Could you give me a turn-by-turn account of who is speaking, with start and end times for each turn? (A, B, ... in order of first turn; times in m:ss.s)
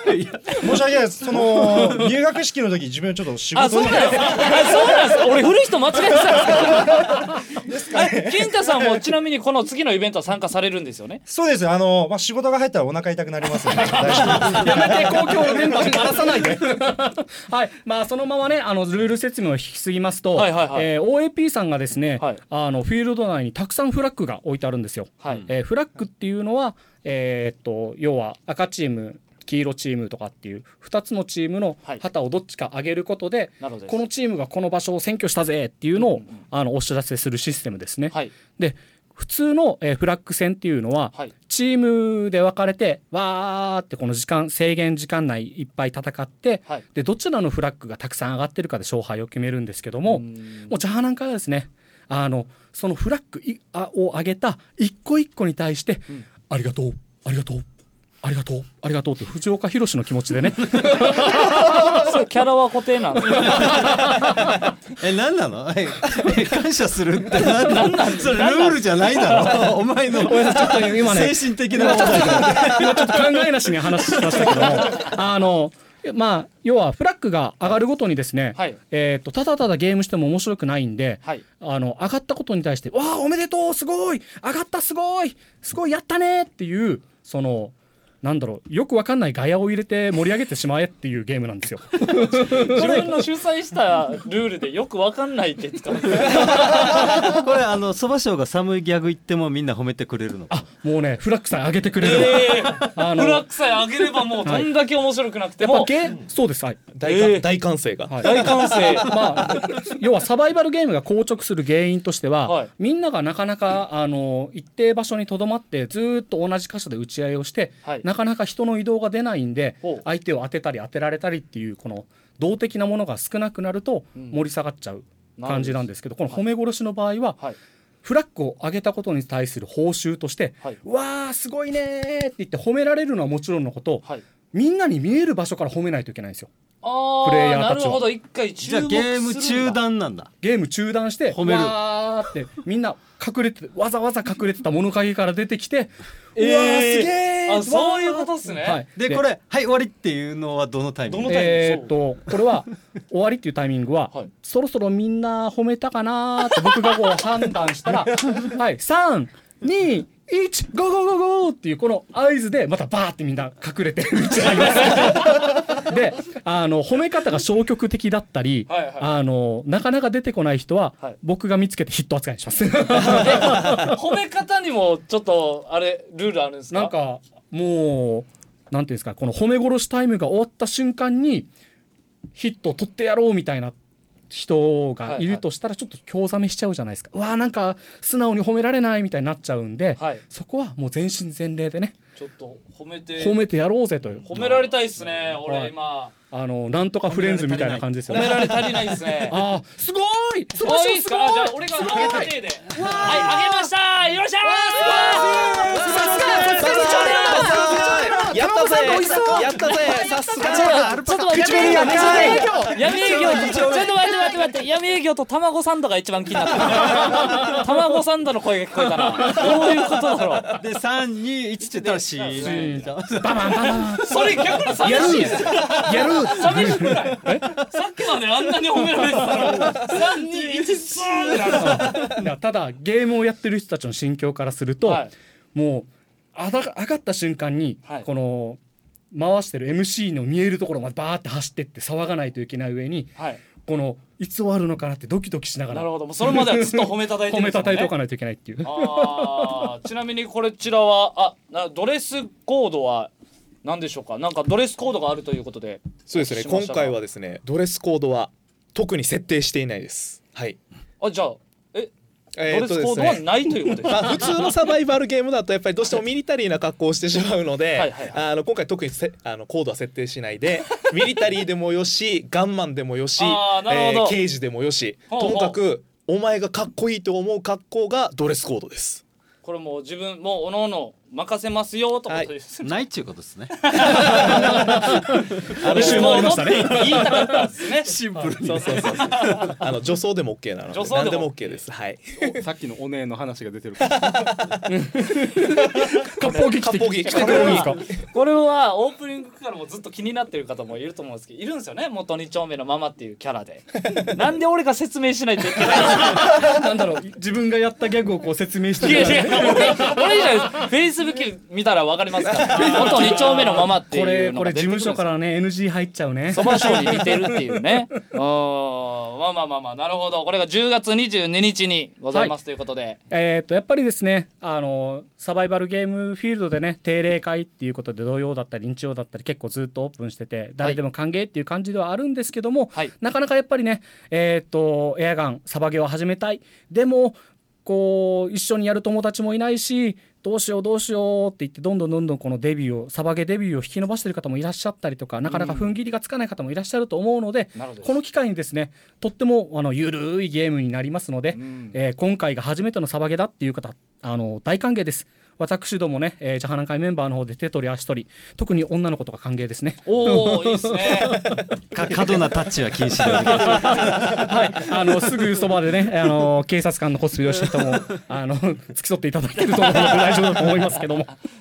0:00.5-0:05.3 A
0:03.5-0:07.1 B
0:06.5-0:09.0 A
0:07.9-0:11.2 B
0:11.3-0:16.0 A
0:13.9-0:57.6 C
0:13.9-0:14.2 B
0:20.3-0:20.9 B
0:33.6-0:34.0 B
0:36.0-0:36.4 B
0:50.0-0:50.7 B
0:58.2-1:02.0 C
1:01.1-1:03.9 B
1:03.4-1:04.5 C
1:05.0-1:13.4 D
1:07.4-1:09.4 B
1:10.1-1:33.2 C
1:14.1-1:14.5 D
1:32.6-1:37.0 B
1:36.3-1:40.6 D
1:40.5-1:43.5 C
1:42.0-1:45.9 B
1:44.4-1:44.7 C
1:45.6-1:46.8 C
1:46.9-1:49.1 E
1:47.0-1:47.5 B
1:48.1-1:48.4 C
1:48.2-1:49.1 B
1:49.0-2:07.4 C
1:52.4-1:52.7 B
2:05.4-2:06.4 B
2:08.0-2:16.5 C
2:16.8-2:19.8 B
2:17.2-2:18.0 C
2:18.6-2:20.3 D
2:20.4-2:29.2 C
2:21.3-2:21.8 D
2:26.4-2:28.8 B
2:28.9-2:31.7 D
2:31.1-2:31.9 B
2:31.2-2:54.0 C
2:44.8-2:45.2 B
2:48.7-2:49.1 B
2:53.0-2:56.9 B
2:56.7-3:01.5 C
3:02.3-3:03.8 C
3:04.3-3:12.0 C
3:05.0-3:05.4 B
3:10.0-3:10.2 B
3:12.2-3:13.4 B
3:13.2-3:14.7 C
3:14.2-3:16.1 B
3:15.4-3:18.6 C
3:17.1-3:19.4 B
3:18.1-3:18.5 E
3:19.3-3:23.4 C
3:20.6-3:27.6 B
3:24.4-3:33.6 C
3:26.4-3:30.9 E
3:30.4-3:33.9 D
3:31.4-3:40.6 B
3:31.4-3:32.4 A
3:36.9-3:37.5 C
3:40.6-3:43.9 D
3:41.8-3:42.9 B
3:42.4-3:47.4 C
3:44.0-3:52.1 B
3:49.3-3:49.8 C
3:51.4-3:58.6 C
3:54.8-3:55.1 B
3:59.1-4:09.7 C
4:03.2-4:03.4 B
4:05.7-4:07.9 B
4:08.6-4:13.1 B
4:13.6-4:17.0 B
4:16.1-4:20.6 E
4:21.0-4:21.9 B
4:22.3-4:23.3 E
4:22.5-4:24.2 B
4:23.8-4:39.0 E
4:27.8-4:28.2 B
4:33.2-4:34.2 B
4:35.1-4:35.6 B
4:39.4-4:42.8 B
4:42.6-4:44.0 D
4:43.7-4:44.9 B
4:43.9-4:47.3 C
4:45.6-4:47.9 B
4:45.6-4:46.4 E
4:47.8-4:49.6 D
4:48.1-4:48.8 C
4:48.4-4:52.4 E
4:48.9-4:49.5 B
4:50.7-4:51.6 B
4:52.2-4:54.4 F
4:53.9-4:54.6 E
4:54.7-4:57.8 C
4:55.6-4:58.0 E
4:57.0-5:06.3 B
5:05.6-5:10.3 C
5:08.8-5:15.0 B
5:12.4-5:13.3 E
5:12.5-5:17.6 C
5:16.3-5:23.0 B
5:23.1-6:01.4 C
5:45.2-5:45.8 B
5:47.5-5:48.0 B
5:51.3-5:51.8 B
5:59.8-6:01.2 B
6:01.7-6:04.2 D
6:03.2-6:11.1 C
6:03.5-6:04.0 B
6:09.5-6:10.4 B